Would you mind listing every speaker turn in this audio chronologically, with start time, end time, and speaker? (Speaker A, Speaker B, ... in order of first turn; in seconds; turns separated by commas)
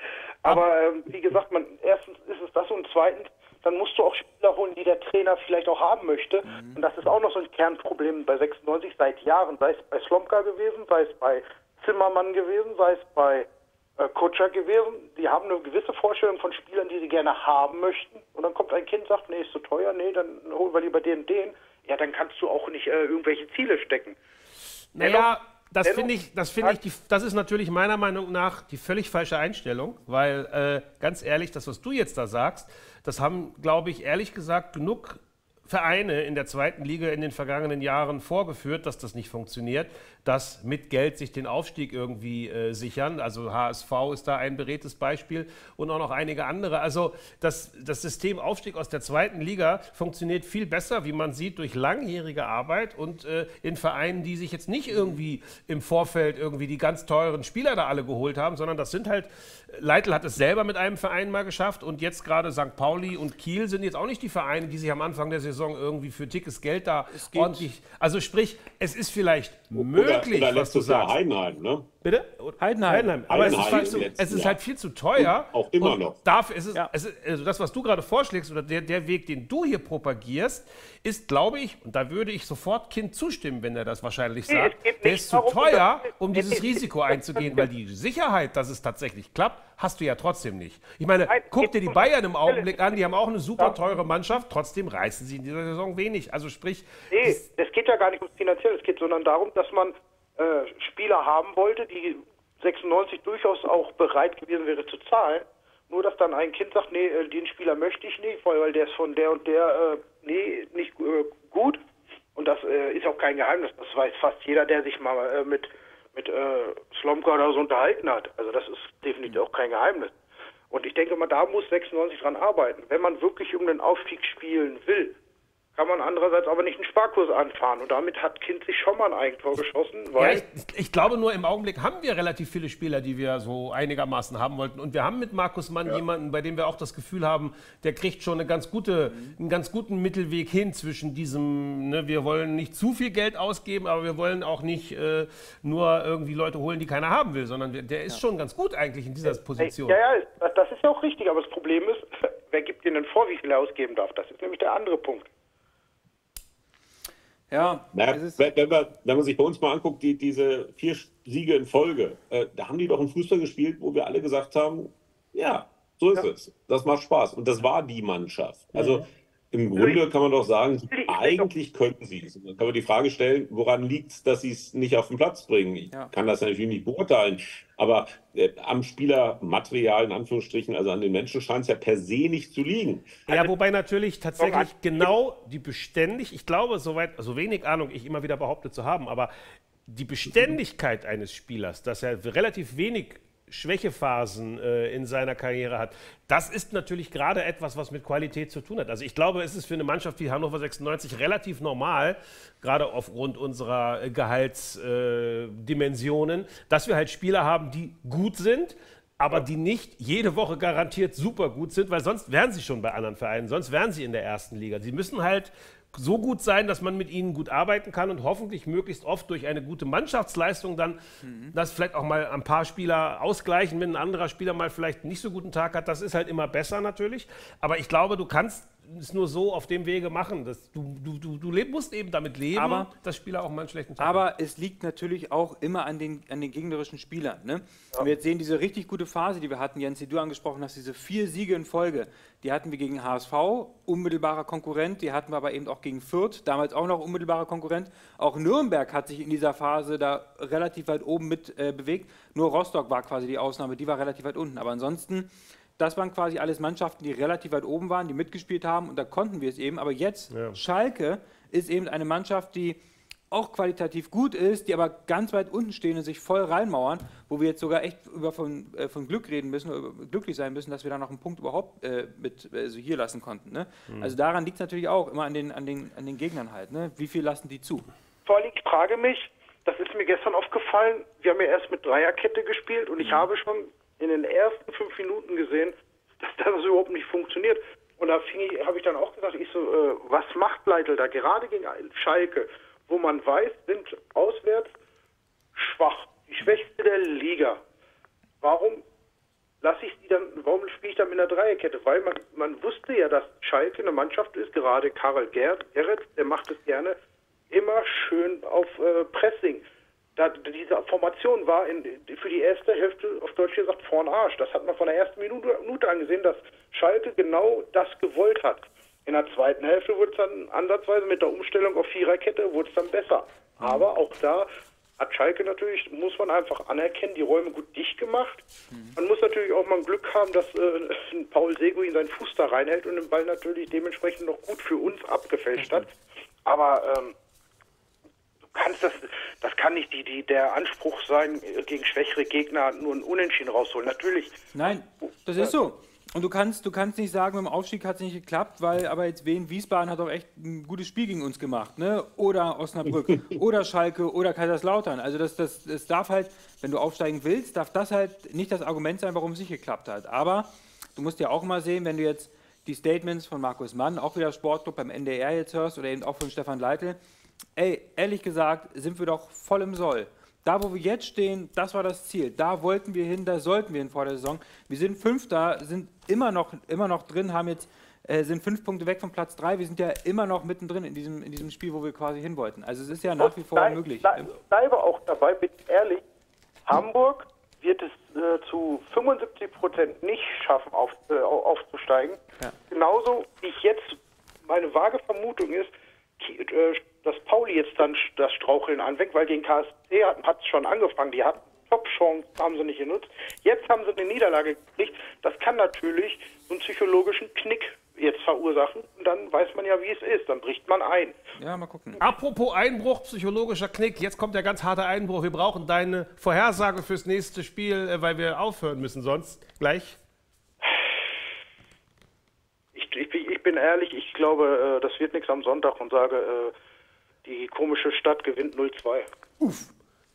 Speaker A: 0.4-13.5, Speaker B: 6.5-6.8, Speaker A: 14.0-24.2, Speaker C: 24.9-71.1, Speaker A: 25.0-25.3, Speaker A: 25.8-26.1, Speaker B: 54.9-55.2, Speaker B: 67.1-67.7, Speaker D: 69.8-71.9, Speaker C: 72.0-97.4, Speaker B: 72.6-74.0, Speaker D: 73.3-74.6, Speaker D: 75.2-76.2, Speaker A: 84.5-87.7, Speaker A: 91.3-92.8, Speaker A: 97.1-111.8, Speaker A: 112.3-120.1, Speaker A: 120.7-125.2, Speaker A: 125.8-130.4, Speaker C: 130.2-150.0, Speaker B: 139.1-139.4, Speaker A: 149.6-155.3, Speaker B: 157.5-158.4, Speaker D: 157.9-183.3, Speaker A: 169.8-170.0, Speaker A: 170.9-171.5, Speaker C: 183.3-189.3, Speaker A: 184.4-184.7, Speaker C: 189.9-221.0, Speaker B: 221.2-221.6, Speaker C: 221.5-234.2, Speaker B: 232.5-232.9, Speaker B: 234.0-262.8, Speaker C: 260.3-260.6, Speaker B: 263.3-277.9, Speaker C: 273.9-274.1, Speaker A: 278.3-294.7, Speaker B: 283.0-283.2, Speaker A: 295.6-297.6, Speaker A: 298.4-298.8, Speaker A: 299.6-307.0, Speaker A: 307.5-309.6, Speaker A: 310.2-324.5, Speaker A: 325.0-328.4, Speaker B: 328.7-329.0, Speaker A: 329.0-335.9, Speaker B: 335.6-335.9, Speaker A: 336.4-337.1, Speaker A: 338.5-344.8, Speaker B: 344.5-367.0, Speaker B: 367.6-384.3, Speaker A: 383.2-386.0, Speaker A: 386.7-411.2, Speaker B: 411.4-412.0, Speaker C: 412.0-420.0, Speaker A: 422.8-426.5, Speaker A: 427.2-429.1, Speaker B: 429.4-429.7